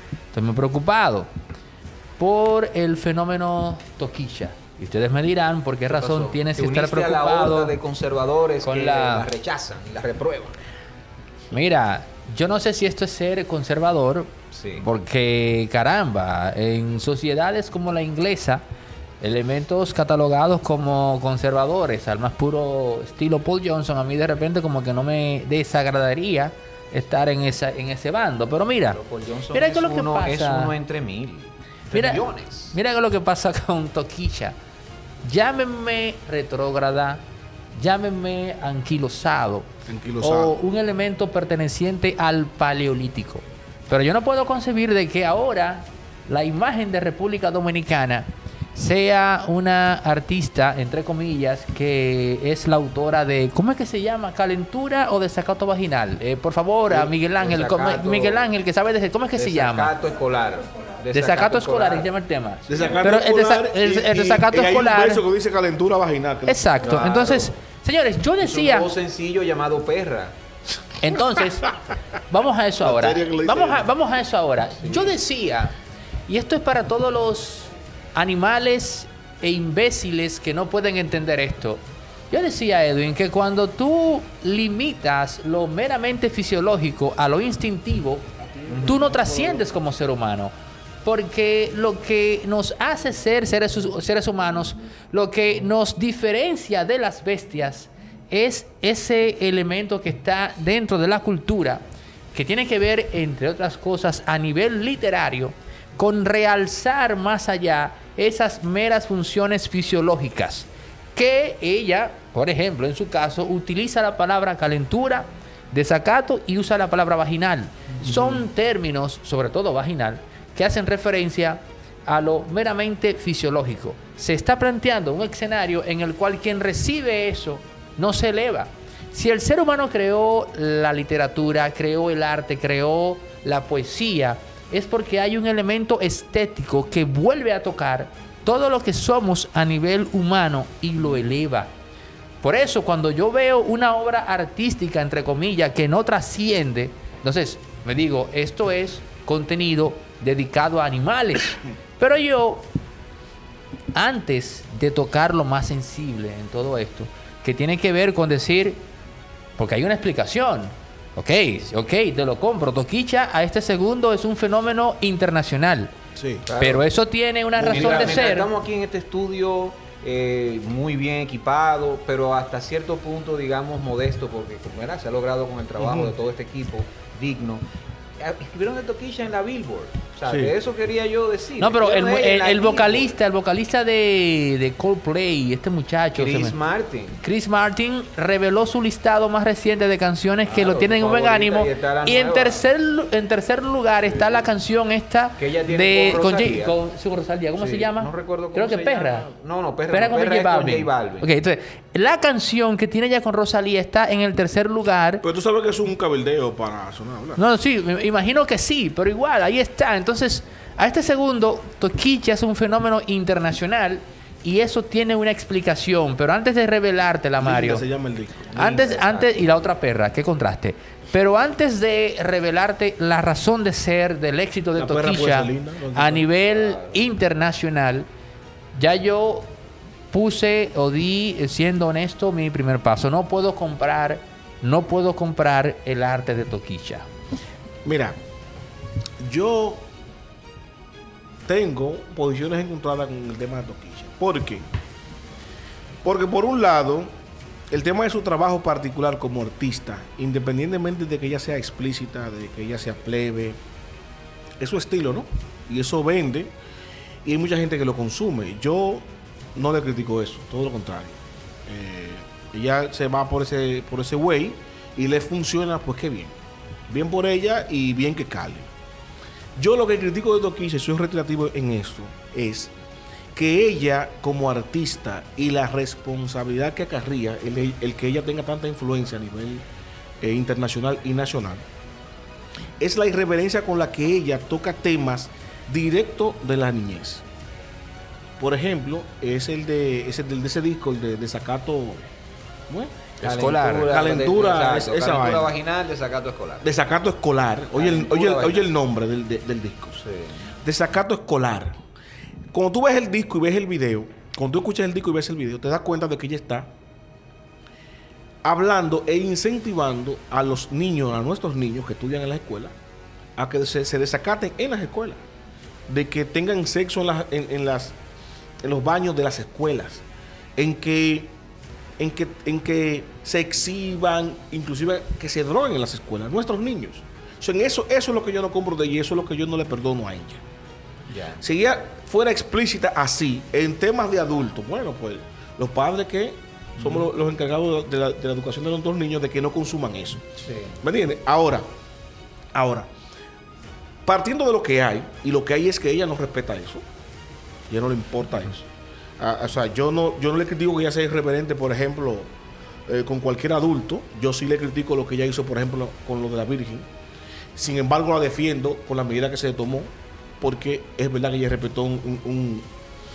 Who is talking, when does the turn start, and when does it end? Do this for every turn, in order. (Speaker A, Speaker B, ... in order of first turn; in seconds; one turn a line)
Speaker A: 0.3-1.3
Speaker A: 2.2-7.7
Speaker B: 5.9-10.6
Speaker A: 8.6-9.3
Speaker A: 11.5-18.6
Speaker B: 14.5-14.9
Speaker A: 19.2-29.0
Speaker B: 28.9-32.8
Speaker A: 29.5-30.7
Speaker A: 31.9-34.5
Speaker A: 35.2-37.2
Speaker A: 37.8-39.7
Speaker C: 39.9-40.6
Speaker A: 40.2-59.9
Speaker B: 57.4-58.5
Speaker B: 59.4-62.1
Speaker A: 61.1-65.2
Speaker C: 62.7-67.5
Speaker B: 62.7-63.0
Speaker A: 66.5-68.9
Speaker B: 66.8-67.4
Speaker B: 68.4-70.3
Speaker A: 71.0-71.8
Speaker A: 72.3-75.7
Speaker C: 72.8-73.9
Speaker B: 74.8-75.2
Speaker A: 76.3-88.3
Speaker B: 88.7-89.1
Speaker A: 88.8-90.5
Speaker A: 91.0-141.7
Speaker C: 118.1-118.4
Speaker A: 142.4-152.7
Speaker A: 153.9-158.8
Speaker A: 159.6-165.9
Speaker C: 166.2-166.5
Speaker B: 166.5-166.9
Speaker A: 166.6-168.5
Speaker B: 167.6-177.6
Speaker C: 175.8-176.1
Speaker B: 178.2-183.2
Speaker C: 180.3-180.5
Speaker A: 181.6-186.6
Speaker B: 186.2-187.2
Speaker A: 187.2-199.3
Speaker B: 190.5-192.6
Speaker B: 194.0-194.5
Speaker B: 195.4-196.8
Speaker B: 197.6-201.3
Speaker A: 199.9-205.2
Speaker C: 205.2-207.4
Speaker A: 207.4-217.8
Speaker C: 217.4-218.8
Speaker A: 218.6-228.1
Speaker B: 218.6-219.7
Speaker C: 224.8-226.3
Speaker B: 226.5-227.0
Speaker A: 228.8-229.5
Speaker A: 230.1-237.1
Speaker C: 237.8-238.2
Speaker C: 239.2-239.9
Speaker C: 241.5-244.7
Speaker C: 246.0-247.1
Speaker C: 247.7-253.6
Speaker C: 254.6-256.5
Speaker C: 257.2-266.4
Speaker C: 266.9-268.7
Speaker C: 269.6-272.7
Speaker C: 273.4-279.6
Speaker C: 280.2-281.6
Speaker C: 282.8-287.2
Speaker C: 288.4-292.0
Speaker C: 292.7-295.5
Speaker A: 293.2-293.9
Speaker B: 293.2-296.7
Speaker C: 296.6-300.0
Speaker B: 297.7-298.7
Speaker B: 300.0-300.4
Speaker C: 300.6-301.8
Speaker C: 302.5-306.7
Speaker C: 308.4-312.7
Speaker C: 313.4-315.2
Speaker C: 315.9-317.9
Speaker C: 318.6-320.0
Speaker C: 320.6-321.3
Speaker C: 322.0-330.4
Speaker B: 331.1-331.4
Speaker C: 331.4-340.2
Speaker B: 336.8-337.1
Speaker B: 340.4-340.8
Speaker C: 340.8-341.7
Speaker C: 342.5-342.9
Speaker C: 344.1-346.8
Speaker C: 347.7-348.6
Speaker C: 349.2-352.3
Speaker C: 352.9-356.9
Speaker C: 357.6-359.9
Speaker C: 360.4-362.7